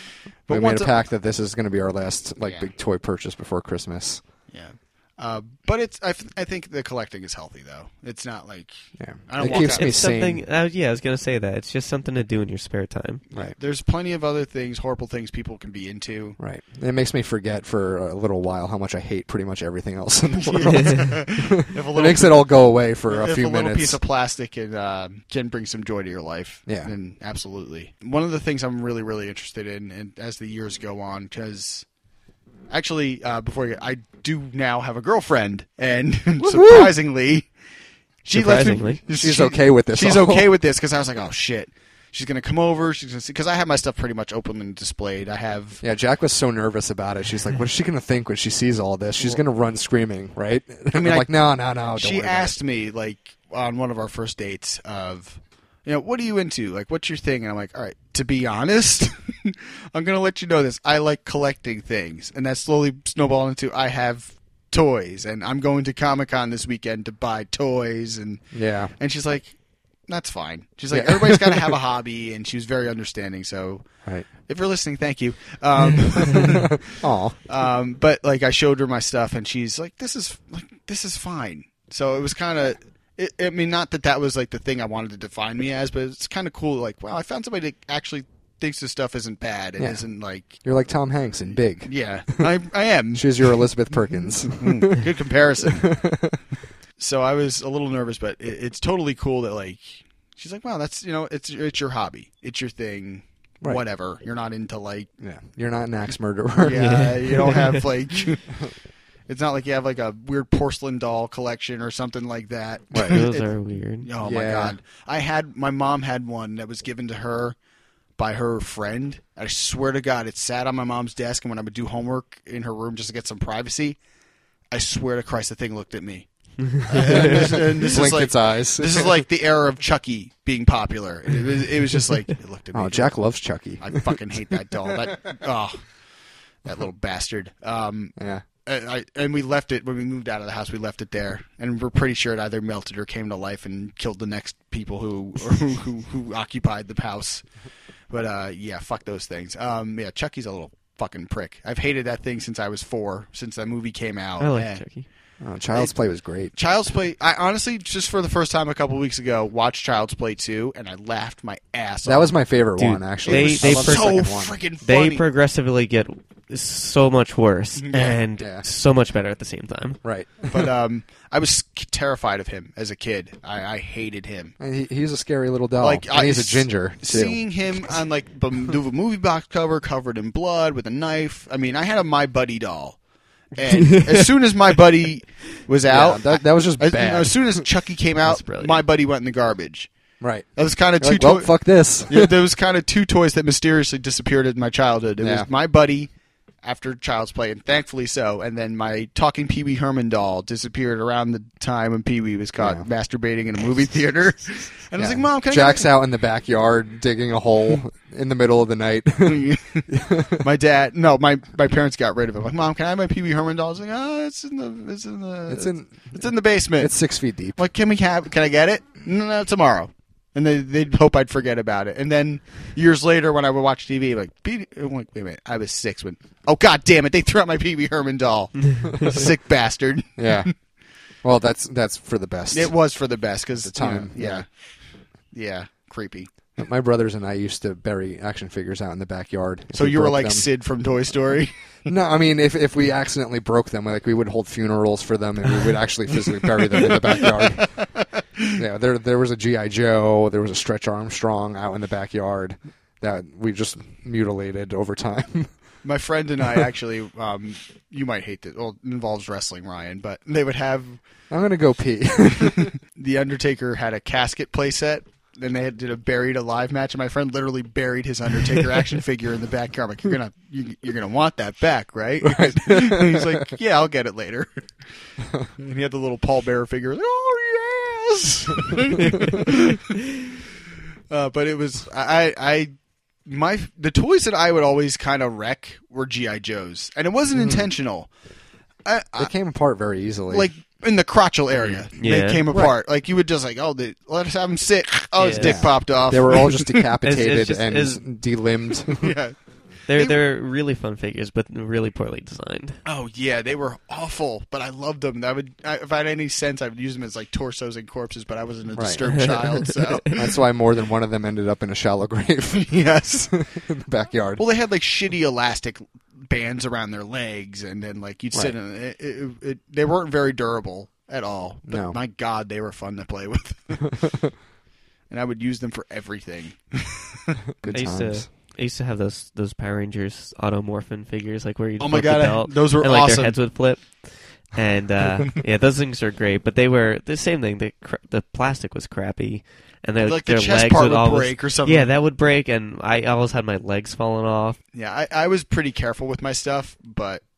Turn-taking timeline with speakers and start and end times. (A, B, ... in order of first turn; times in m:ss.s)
0:00.4-0:01.0 A
0:00.5-0:04.2 B
0:02.4-0:02.7 A
0:04.5-0:10.0 A
0:09.0-0:10.4 B
0:09.4-0:13.2 C
0:13.3-0:16.4 A
0:16.4-0:24.0 B
0:20.4-0:31.8 A
0:26.6-0:26.9 B
0:32.7-0:37.5 A
0:36.4-0:36.9 B
0:38.2-0:45.8 A
0:38.3-0:39.0 C
0:39.1-0:40.5 B
0:45.8-0:52.6 B
0:50.9-0:51.3 A
0:51.9-1:16.9 A
1:08.5-1:08.9 B
1:10.9-1:11.8 B
1:16.2-1:17.4 B
1:17.4-1:30.6 A
1:29.8-1:32.5 B
1:31.8-1:33.7 A
1:33.1-1:35.1 B
1:34.4-1:36.0 A
1:35.6-1:36.4 B
1:37.0-1:45.1 A
1:45.2-1:47.5 B
1:46.6-1:48.5 A
1:46.7-1:47.8 C
1:49.3-1:57.6 A
1:52.9-1:53.2 B
1:53.0-1:54.1 C
1:54.2-1:54.8 B
1:58.2-2:04.0 A
2:04.7-2:13.2 A
2:06.7-2:07.5 C
2:07.0-2:09.2 B
2:12.7-2:14.4 B
2:13.8-2:15.9 A
2:16.6-2:27.4 A
2:18.2-2:18.4 B
2:28.1-2:34.8 A
2:34.4-2:35.1 C
2:35.4-2:36.5 B
2:36.5-2:42.4 A
2:42.0-2:44.6 B
2:42.8-2:50.0 C
2:43.2-2:45.2 A
2:47.8-2:48.2 A
2:48.4-2:48.6 B
2:50.0-2:50.7 B
2:50.5-2:54.5 A
2:54.6-2:58.0 B
2:55.8-3:03.0 A
3:03.5-3:09.9 A
3:05.9-3:07.6 B
3:08.2-3:08.8 C
3:10.2-3:12.4 B
3:10.5-3:16.1 A
3:15.2-3:15.5 B
3:16.6-3:25.9 A
3:22.6-3:22.8 B
3:25.0-3:30.4 B
3:29.2-3:37.0 A
3:35.5-3:37.6 B
3:37.5-3:50.5 A
3:48.6-3:49.0 C
3:50.2-3:50.5 B
3:51.2-3:52.7 B
3:52.5-3:54.5 A
3:53.6-3:54.4 B
3:55.3-3:56.3 A
3:56.6-4:00.5 B
3:59.7-4:01.5 A
4:01.8-4:07.9 B
4:06.8-4:08.5 A
4:08.5-4:15.5 B
4:15.8-4:21.0 A
4:21.3-4:22.7 B
4:22.6-4:34.6 A
4:32.2-4:33.3 B
4:35.4-4:40.0 A
4:41.1-4:42.7 A
4:43.2-4:48.1 A
4:47.3-4:47.7 B
4:48.8-4:49.3 A
4:49.2-4:50.5 B
4:50.3-4:56.8 A
4:51.9-4:52.4 C
4:55.2-4:55.6 C
4:55.4-4:59.1 B
4:57.0-4:58.0 C
4:58.9-4:59.4 A
4:59.9-5:02.8 C
4:59.9-5:00.2 A
5:02.8-5:10.1 A
5:08.7-5:09.0 B
5:10.1-5:14.4 B
5:12.5-5:13.3 A
5:14.4-5:24.0 A
5:21.7-5:22.0 B
5:23.9-5:24.3 B
5:25.1-5:27.4 A
5:27.6-5:28.3 B
5:27.7-5:44.6 C
5:31.8-5:33.4 A
5:40.0-5:41.9 A
5:44.7-5:47.2 A